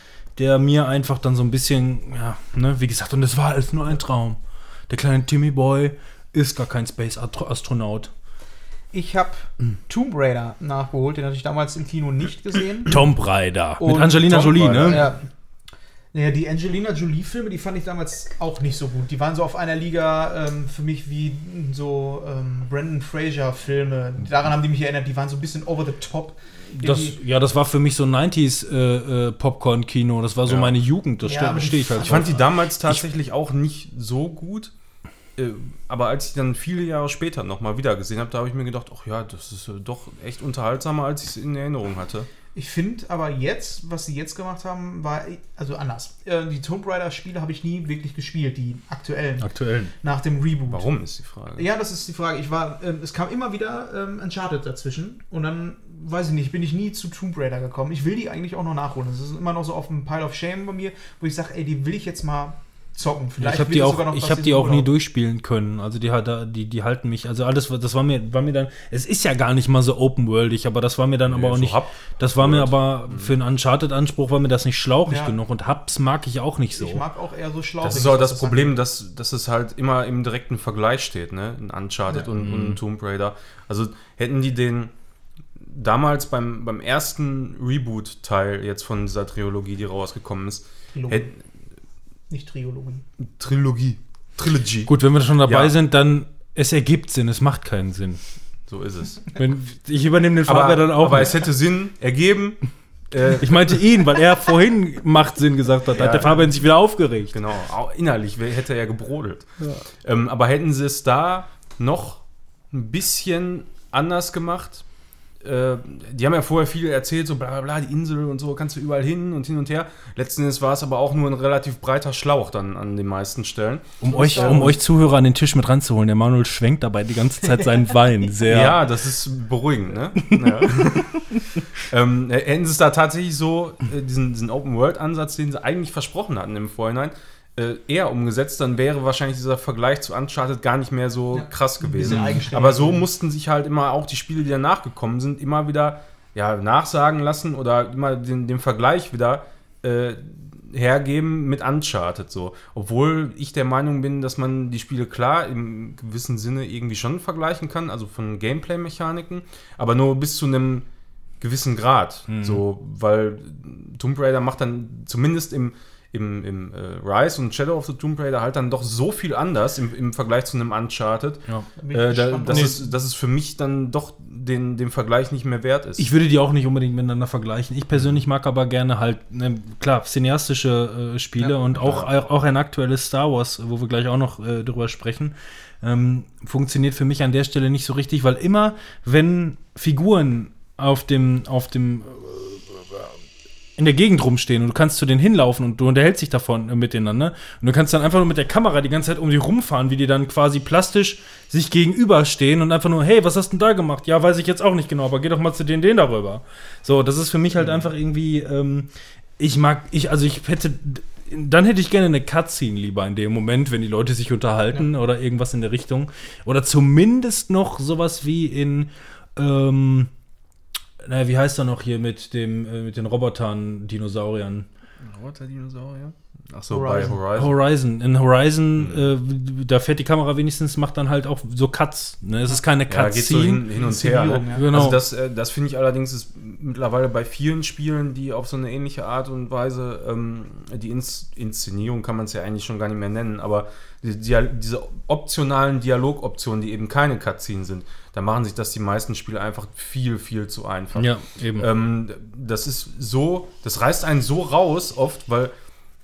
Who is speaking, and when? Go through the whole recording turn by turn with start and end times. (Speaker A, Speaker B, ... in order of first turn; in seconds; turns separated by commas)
Speaker A: 0.3-8.1, Speaker B: 8.9-13.0, Speaker A: 12.9-15.0, Speaker B: 13.8-15.3, Speaker C: 14.4-15.0, Speaker B: 16.1-27.2, Speaker A: 26.8-33.0, Speaker C: 30.4-30.7, Speaker B: 31.2-32.4, Speaker C: 32.0-34.7, Speaker C: 35.4-42.3, Speaker B: 42.5-49.5, Speaker A: 49.4-49.9, Speaker B: 50.0-50.9, Speaker C: 50.7-51.6, Speaker B: 51.5-64.9, Speaker A: 63.4-77.0, Speaker C: 71.3-73.3, Speaker B: 75.0-75.3, Speaker B: 76.7-78.7, Speaker C: 77.8-84.9, Speaker A: 82.4-82.8, Speaker C: 85.6-91.3, Speaker B: 90.9-91.3, Speaker B: 92.3-93.0, Speaker C: 93.2-95.7, Speaker A: 94.9-98.2, Speaker C: 98.7-99.3, Speaker A: 99.3-101.4, Speaker C: 100.5-103.8, Speaker A: 103.4-107.3, Speaker C: 105.9-106.6, Speaker C: 107.3-114.8, Speaker C: 115.4-124.8, Speaker B: 124.0-124.7, Speaker A: 124.1-128.8, Speaker C: 128.5-131.2, Speaker A: 130.3-131.3, Speaker C: 131.8-160.8, Speaker B: 141.3-143.0, Speaker A: 142.0-142.3, Speaker C: 161.4-176.1, Speaker A: 162.3-162.6, Speaker B: 171.8-172.8, Speaker A: 172.5-172.7, Speaker A: 176.0-193.1, Speaker C: 181.8-182.1, Speaker A: 193.8-220.1, Speaker A: 221.0-224.7, Speaker C: 225.0-227.5, Speaker B: 226.7-227.2, Speaker A: 227.3-233.6, Speaker C: 228.8-229.1, Speaker C: 232.9-255.5, Speaker B: 233.7-234.7, Speaker A: 234.5-235.0, Speaker A: 250.9-251.7